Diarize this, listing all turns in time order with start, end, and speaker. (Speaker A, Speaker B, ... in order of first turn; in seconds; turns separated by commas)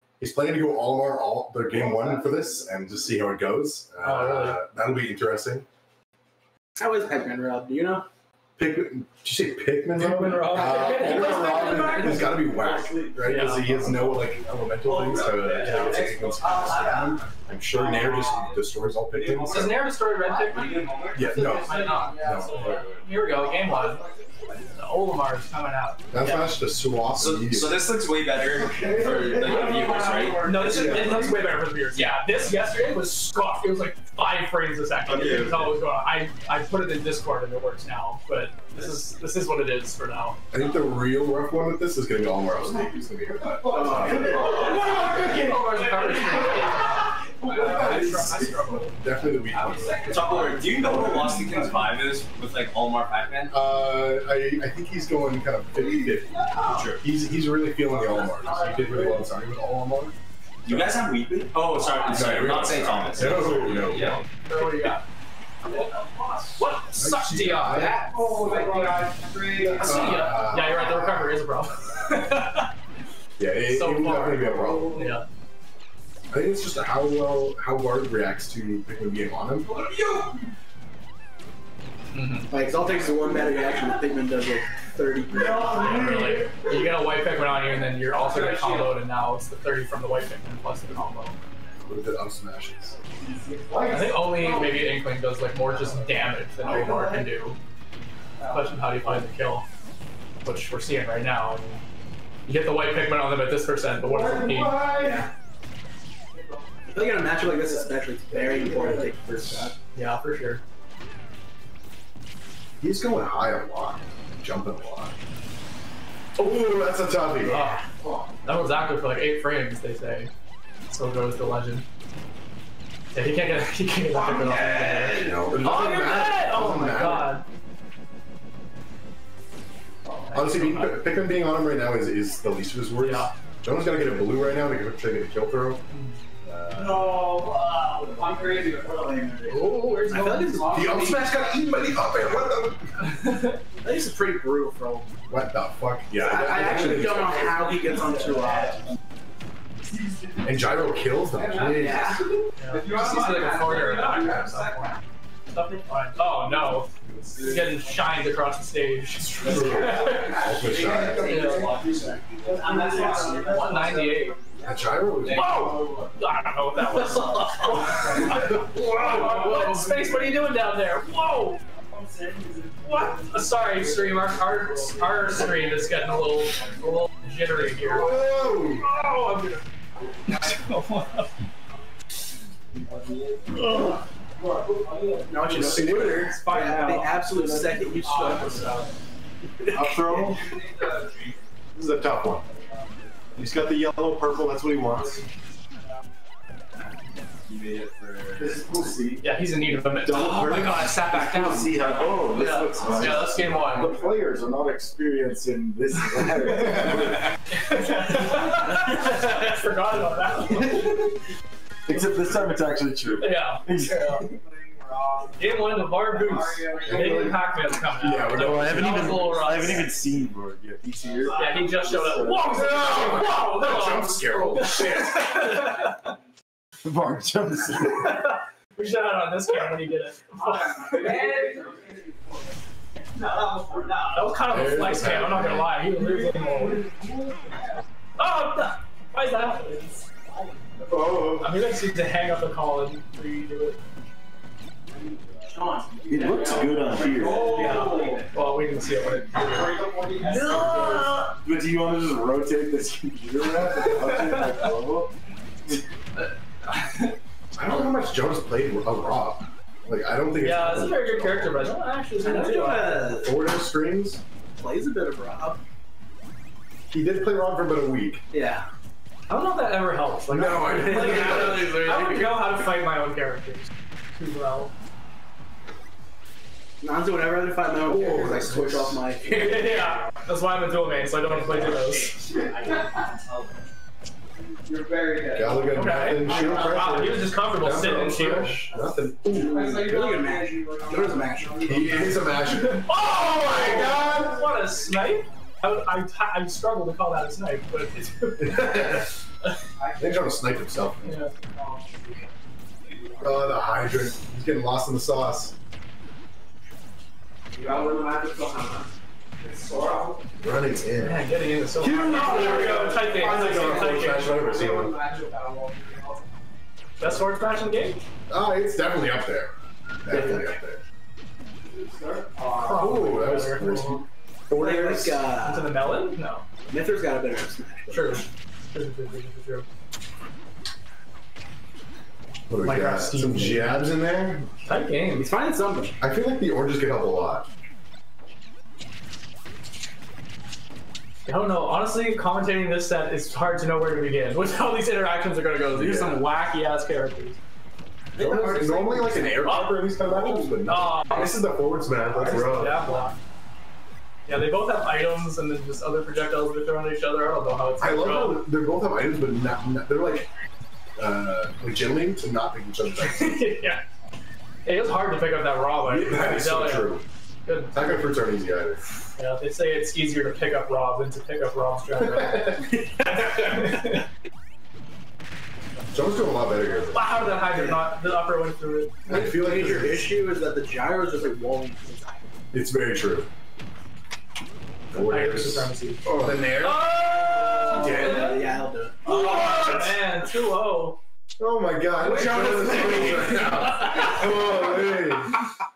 Speaker A: 0.2-5.7, Speaker B: 1.8-2.3, Speaker C: 4.0-4.6, Speaker B: 6.8-8.1, Speaker A: 8.6-19.8, Speaker C: 9.9-12.5, Speaker C: 13.2-13.9, Speaker D: 14.8-17.1, Speaker C: 15.6-15.9, Speaker E: 16.4-17.0, Speaker D: 18.2-18.5, Speaker D: 19.1-19.7, Speaker C: 19.4-24.0, Speaker E: 20.2-22.5, Speaker D: 20.5-22.0, Speaker A: 21.1-22.8, Speaker D: 22.6-23.0, Speaker D: 24.3-24.7, Speaker C: 24.7-26.1, Speaker A: 26.1-27.8, Speaker D: 27.1-31.0, Speaker E: 29.4-30.6, Speaker C: 30.4-40.4, Speaker A: 30.7-31.2, Speaker D: 31.9-32.2, Speaker F: 35.1-35.7, Speaker A: 40.5-44.5, Speaker B: 43.8-44.4, Speaker D: 44.1-44.8, Speaker C: 44.1-47.0, Speaker A: 47.4-50.2, Speaker D: 47.5-48.9, Speaker D: 49.6-53.5, Speaker A: 50.8-51.3, Speaker A: 53.5-60.1, Speaker B: 56.3-56.8, Speaker D: 56.6-57.0, Speaker D: 60.6-64.2, Speaker A: 61.9-64.2, Speaker C: 64.1-65.0, Speaker C: 66.6-67.9, Speaker A: 66.9-68.9, Speaker B: 67.7-68.9, Speaker E: 68.3-69.8, Speaker A: 69.5-71.4, Speaker C: 69.8-72.7, Speaker A: 73.4-75.0, Speaker C: 73.7-75.2, Speaker A: 76.3-79.7, Speaker C: 82.1-82.5, Speaker B: 82.5-86.0, Speaker C: 85.8-91.4, Speaker A: 85.8-86.5, Speaker A: 91.8-93.0, Speaker A: 93.6-94.3, Speaker C: 93.9-97.6, Speaker A: 96.6-97.2, Speaker C: 98.5-99.6, Speaker C: 100.4-101.8, Speaker C: 102.5-104.8, Speaker A: 104.0-105.2, Speaker B: 105.0-105.3, Speaker B: 106.9-109.7, Speaker A: 108.3-109.7, Speaker C: 109.9-110.6, Speaker A: 112.8-115.2, Speaker A: 116.4-117.6, Speaker C: 117.4-117.8, Speaker C: 118.4-120.3, Speaker C: 120.9-121.8, Speaker C: 123.1-127.4, Speaker D: 124.4-125.5, Speaker A: 125.2-127.3, Speaker A: 130.3-135.8, Speaker C: 130.3-131.0, Speaker C: 133.0-133.3, Speaker C: 135.9-136.2, Speaker A: 136.4-137.3, Speaker D: 137.2-138.8, Speaker E: 138.1-138.7, Speaker A: 139.4-142.8, Speaker B: 139.9-141.4, Speaker C: 143.2-143.6, Speaker B: 143.8-145.1, Speaker A: 145.3-147.8, Speaker B: 146.2-148.8, Speaker A: 150.4-152.2, Speaker B: 151.8-152.2, Speaker C: 152.6-155.0, Speaker E: 152.8-153.6, Speaker D: 153.2-154.0, Speaker E: 154.2-154.5, Speaker C: 155.8-160.4, Speaker D: 157.0-157.8, Speaker A: 159.2-161.4, Speaker D: 159.4-164.4, Speaker C: 161.2-161.7, Speaker E: 162.6-163.6, Speaker F: 162.8-163.8, Speaker C: 163.4-164.4, Speaker A: 164.6-165.7, Speaker D: 165.2-166.1, Speaker C: 165.3-171.6, Speaker A: 168.4-169.3, Speaker F: 171.9-172.8, Speaker C: 172.8-179.6, Speaker A: 177.8-178.9, Speaker C: 180.2-181.3, Speaker C: 183.6-183.9, Speaker B: 185.3-188.9, Speaker A: 185.4-186.3, Speaker C: 185.9-187.5, Speaker F: 189.7-190.4, Speaker D: 190.0-191.4, Speaker A: 191.7-192.4, Speaker A: 193.3-195.2, Speaker D: 197.5-198.8, Speaker F: 198.3-199.2, Speaker A: 198.5-199.0, Speaker C: 199.2-201.8, Speaker F: 199.9-207.2, Speaker C: 202.3-203.9, Speaker A: 202.8-203.8, Speaker C: 207.5-211.1, Speaker F: 211.9-214.4, Speaker C: 213.2-214.2, Speaker C: 215.3-219.9, Speaker E: 216.3-217.2, Speaker A: 216.8-217.4, Speaker A: 218.0-219.3, Speaker F: 218.3-222.6, Speaker C: 221.3-225.8, Speaker A: 222.3-225.4, Speaker F: 226.8-228.2, Speaker C: 228.0-231.4, Speaker B: 231.3-231.7, Speaker B: 233.2-233.9, Speaker C: 234.1-236.8, Speaker A: 234.5-235.8, Speaker C: 238.2-240.1, Speaker F: 240.9-241.5, Speaker C: 241.4-243.8, Speaker B: 245.4-247.2, Speaker F: 246.1-247.5, Speaker C: 246.2-246.5, Speaker E: 246.5-248.2, Speaker D: 247.1-248.2, Speaker C: 247.1-249.8, Speaker D: 249.8-250.3, Speaker F: 250.2-255.1, Speaker C: 250.4-251.1, Speaker C: 253.9-254.7, Speaker C: 256.2-257.1, Speaker A: 257.5-261.7, Speaker C: 260.4-263.2, Speaker B: 262.2-263.3, Speaker A: 263.2-264.2, Speaker B: 264.6-265.6, Speaker A: 266.9-268.2, Speaker B: 268.3-268.7, Speaker C: 269.3-274.7, Speaker A: 270.3-272.1, Speaker B: 276.8-279.9, Speaker A: 277.8-279.0, Speaker C: 279.3-282.2, Speaker D: 281.2-283.6, Speaker A: 285.3-290.1, Speaker C: 285.7-288.7, Speaker B: 289.3-292.2, Speaker E: 290.1-292.1, Speaker A: 291.6-294.3, Speaker C: 292.5-299.5, Speaker E: 293.9-294.1, Speaker A: 298.4-299.1, Speaker A: 300.0-301.2, Speaker C: 301.0-301.3, Speaker A: 303.2-305.5, Speaker A: 310.4-311.2, Speaker C: 310.9-314.4, Speaker F: 311.8-312.9, Speaker A: 312.1-314.9, Speaker E: 312.2-312.5, Speaker B: 314.3-314.9, Speaker E: 314.5-315.5, Speaker C: 317.0-318.0, Speaker A: 318.3-319.5, Speaker A: 320.0-320.8, Speaker B: 320.1-320.4, Speaker C: 322.6-324.0, Speaker A: 322.6-325.2, Speaker B: 324.5-325.8, Speaker C: 325.4-326.4, Speaker B: 326.7-328.2, Speaker C: 327.9-329.6, Speaker A: 332.5-334.5, Speaker C: 332.6-333.8, Speaker C: 334.6-335.3, Speaker B: 335.1-336.0, Speaker A: 336.0-337.4, Speaker C: 341.2-347.4, Speaker A: 345.7-346.2, Speaker B: 348.1-349.4, Speaker A: 348.2-352.8, Speaker C: 349.4-349.8, Speaker C: 350.7-351.2, Speaker C: 352.2-353.1, Speaker C: 354.3-358.4, Speaker A: 357.8-360.3, Speaker A: 361.0-363.4, Speaker C: 363.0-363.8, Speaker C: 364.6-368.0, Speaker A: 365.8-367.0, Speaker A: 367.7-368.8, Speaker C: 369.1-374.0, Speaker A: 375.9-377.1, Speaker C: 376.9-378.9, Speaker B: 377.4-377.9, Speaker A: 379.1-380.1, Speaker B: 379.1-382.2, Speaker A: 382.5-383.3, Speaker A: 384.9-386.9, Speaker C: 385.0-386.0, Speaker C: 386.6-388.5, Speaker B: 387.6-389.1, Speaker A: 387.7-388.4, Speaker C: 389.0-391.0, Speaker A: 391.4-395.4, Speaker C: 392.0-394.1